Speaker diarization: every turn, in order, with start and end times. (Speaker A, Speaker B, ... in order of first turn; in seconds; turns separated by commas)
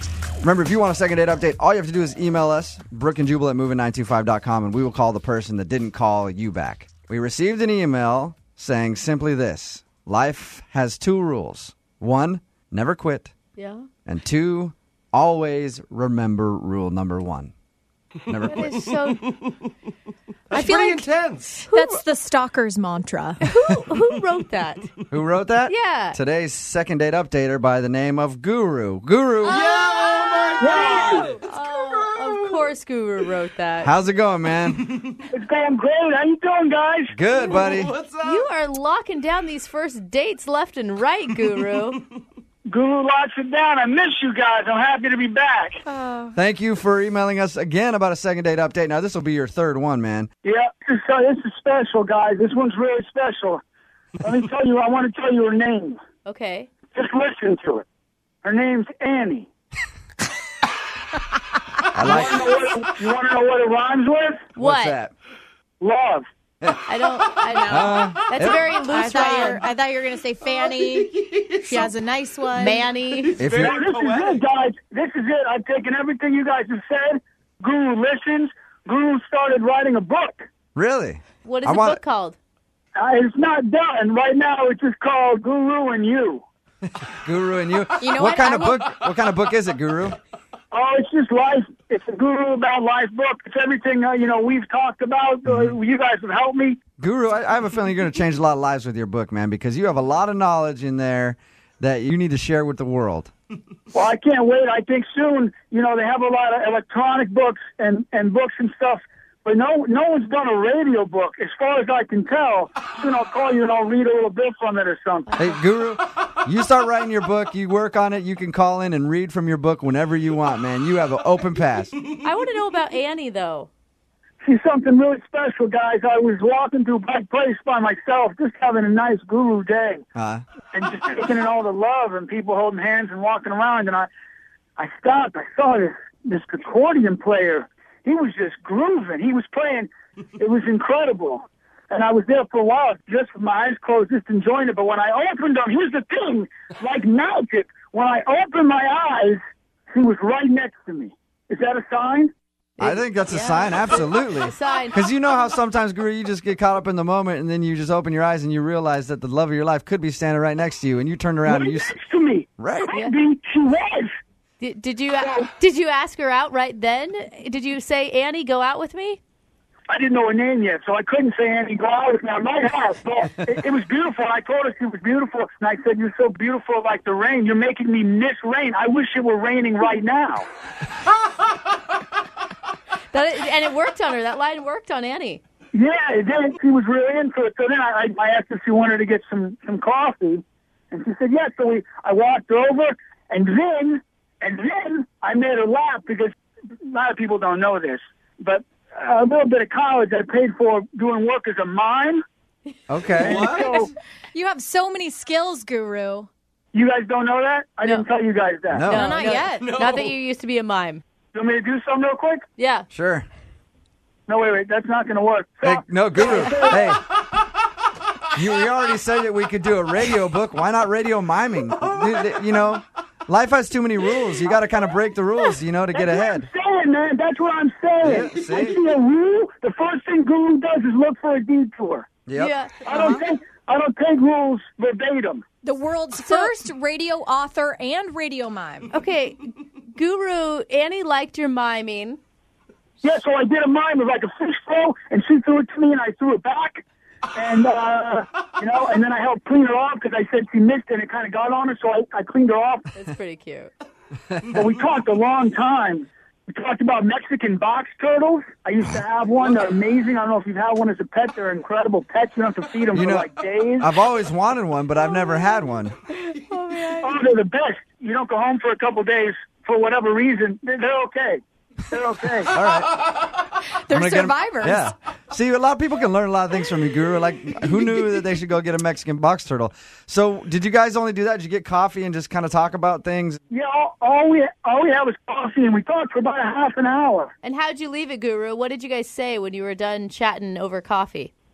Speaker A: 0.4-13.3, Speaker B: 13.6-13.9, Speaker A: 14.1-17.5, Speaker A: 18.3-18.9, Speaker B: 18.4-19.3, Speaker B: 20.5-21.1, Speaker C: 20.5-21.6, Speaker D: 20.6-21.0, Speaker B: 21.7-22.0, Speaker D: 21.7-23.4, Speaker B: 23.4-24.9, Speaker A: 25.1-29.6, Speaker B: 25.7-26.2, Speaker B: 29.4-33.9, Speaker C: 29.5-31.5, Speaker E: 30.6-31.3, Speaker A: 33.8-35.0, Speaker E: 35.3-37.2, Speaker A: 37.1-38.0, Speaker C: 37.5-38.4, Speaker B: 38.2-42.0, Speaker E: 42.6-45.8, Speaker B: 45.9-46.3, Speaker A: 46.4-50.3, Speaker E: 50.4-53.6, Speaker E: 54.2-56.0, Speaker B: 56.2-56.7, Speaker E: 56.9-57.9, Speaker E: 58.4-59.5, Speaker A: 61.9-62.4, Speaker E: 62.0-64.5, Speaker B: 64.5-65.0, Speaker A: 64.6-65.1, Speaker E: 65.8-66.3, Speaker B: 66.9-69.6, Speaker D: 67.5-68.0, Speaker A: 67.7-68.7, Speaker D: 68.8-72.8, Speaker C: 70.7-71.8, Speaker B: 71.7-71.9, Speaker B: 72.5-73.4, Speaker C: 73.2-74.4, Speaker A: 73.4-73.8, Speaker E: 73.6-80.5, Speaker A: 80.8-82.0, Speaker B: 81.4-82.4, Speaker E: 83.0-86.4, Speaker A: 86.9-90.2, Speaker D: 88.0-88.9, Speaker E: 90.7-96.8, Speaker A: 95.5-95.8, Speaker A: 97.0-103.3, Speaker E: 103.9-115.3, Speaker B: 115.3-115.6, Speaker A: 115.4-122.0, Speaker B: 122.2-123.7, Speaker E: 124.4-130.0, Speaker A: 130.2-130.4, Speaker E: 130.7-134.1, Speaker E: 134.8-149.4, Speaker E: 149.9-152.3, Speaker B: 152.8-155.0, Speaker A: 152.8-161.9, Speaker E: 161.5-164.1, Speaker A: 162.6-162.9, Speaker B: 164.6-169.2, Speaker E: 169.9-180.5, Speaker B: 183.1-185.4, Speaker E: 185.7-196.3, Speaker E: 196.9-202.2, Speaker A: 202.9-203.6, Speaker E: 203.2-203.9, Speaker C: 203.3-203.7, Speaker D: 204.3-206.3, Speaker E: 206.7-208.9, Speaker A: 208.7-209.1, Speaker B: 208.8-211.0, Speaker D: 208.8-209.7, Speaker C: 209.7-210.1, Speaker E: 211.3-212.5, Speaker B: 212.6-212.9, Speaker A: 212.9-213.3, Speaker E: 214.3-217.0, Speaker A: 215.6-217.2, Speaker A: 218.3-226.5, Speaker E: 225.9-232.1, Speaker A: 228.0-228.8, Speaker A: 232.3-232.6, Speaker B: 232.3-233.2, Speaker E: 232.9-235.4, Speaker D: 235.6-238.9, Speaker B: 236.2-236.5, Speaker B: 238.9-242.2, Speaker E: 243.0-252.9, Speaker B: 252.9-253.7, Speaker E: 254.5-263.9, Speaker A: 262.9-263.3, Speaker A: 263.8-265.9, Speaker B: 266.1-267.1, Speaker E: 267.0-272.5, Speaker A: 272.5-273.0, Speaker D: 273.9-274.9, Speaker A: 273.9-283.4, Speaker E: 283.5-287.3, Speaker B: 287.4-291.3